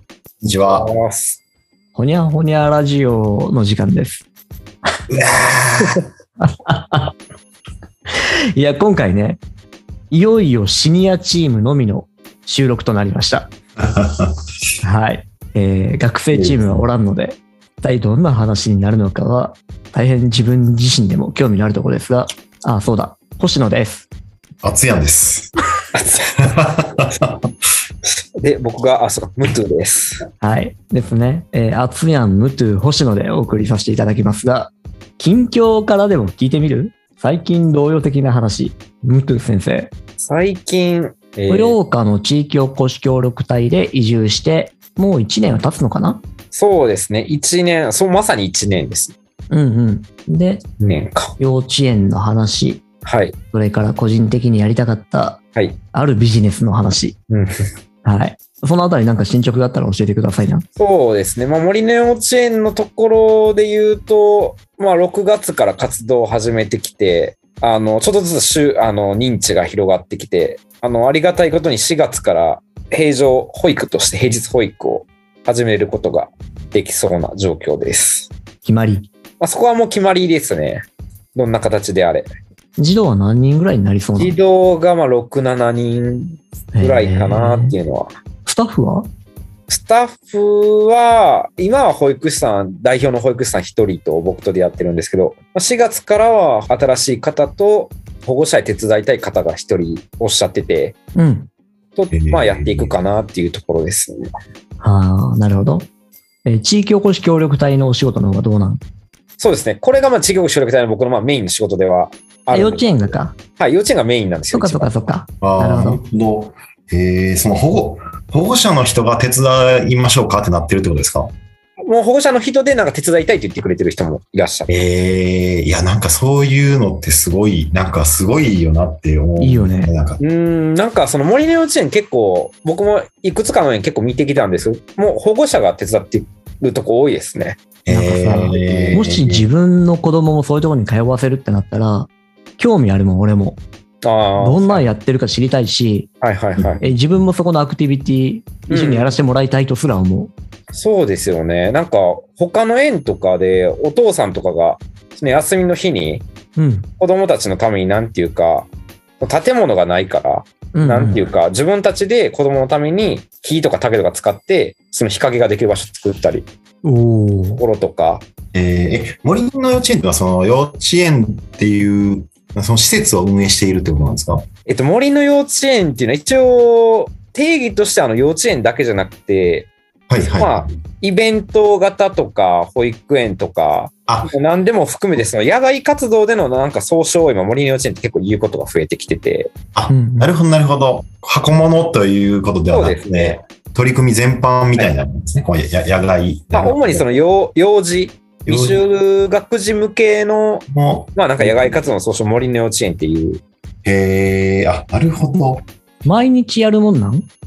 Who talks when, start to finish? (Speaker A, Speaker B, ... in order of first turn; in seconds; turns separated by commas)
Speaker A: 0.4-0.9, Speaker B: 0.7-1.4, Speaker C: 1.9-4.2, Speaker A: 5.1-6.0, Speaker C: 6.4-7.2, Speaker C: 8.1-9.4, Speaker C: 10.1-13.5, Speaker A: 13.9-14.3, Speaker C: 14.8-24.1, Speaker A: 16.3-16.8, Speaker A: 24.6-25.5, Speaker B: 25.9-26.4, Speaker A: 26.5-27.3, Speaker B: 28.4-30.2, Speaker C: 30.4-39.9, Speaker B: 40.2-41.8, Speaker C: 41.5-46.2, Speaker B: 46.5-49.1, Speaker C: 49.5-50.6, Speaker B: 50.8-51.3, Speaker C: 51.4-52.8, Speaker B: 53.0-53.4, Speaker C: 53.5-55.4, Speaker C: 55.9-57.2, Speaker C: 58.0-60.6, Speaker B: 60.8-78.3, Speaker C: 78.6-79.1, Speaker B: 79.4-82.3, Speaker C: 82.8-84.4, Speaker B: 84.2-88.1, Speaker C: 86.7-87.8, Speaker C: 88.5-89.1, Speaker B: 89.7-101.0, Speaker C: 101.2-101.5, Speaker B: 102.0-104.3, Speaker A: 102.1-103.0, Speaker C: 104.8-105.9, Speaker C: 106.5-108.8, Speaker B: 109.4-114.9, Speaker C: 112.5-113.3, Speaker C: 114.5-116.0, Speaker A: 115.4-121.3, Speaker B: 121.9-124.7, Speaker A: 124.7-130.2, Speaker C: 129.4-129.9, Speaker B: 130.2-137.6, Speaker A: 137.8-139.5, Speaker C: 137.9-143.6, Speaker B: 138.4-139.0, Speaker B: 144.0-144.8, Speaker C: 144.4-146.1, Speaker B: 146.2-146.8, Speaker C: 146.8-150.3, Speaker B: 148.7-149.1, Speaker B: 150.7-156.2, Speaker C: 156.6-156.9, Speaker B: 157.0-158.7, Speaker B: 159.2-166.5, Speaker C: 160.7-161.2, Speaker C: 166.8-167.6, Speaker B: 167.6-168.2, Speaker A: 168.5-174.4, Speaker B: 174.7-179.7, Speaker A: 180.1-180.7, Speaker B: 180.3-189.5, Speaker A: 189.7-197.1, Speaker C: 189.9-190.3, Speaker B: 192.7-193.4, Speaker B: 196.5-203.4, Speaker A: 198.5-198.8, Speaker A: 200.7-201.8, Speaker A: 203.8-205.7, Speaker C: 206.0-207.3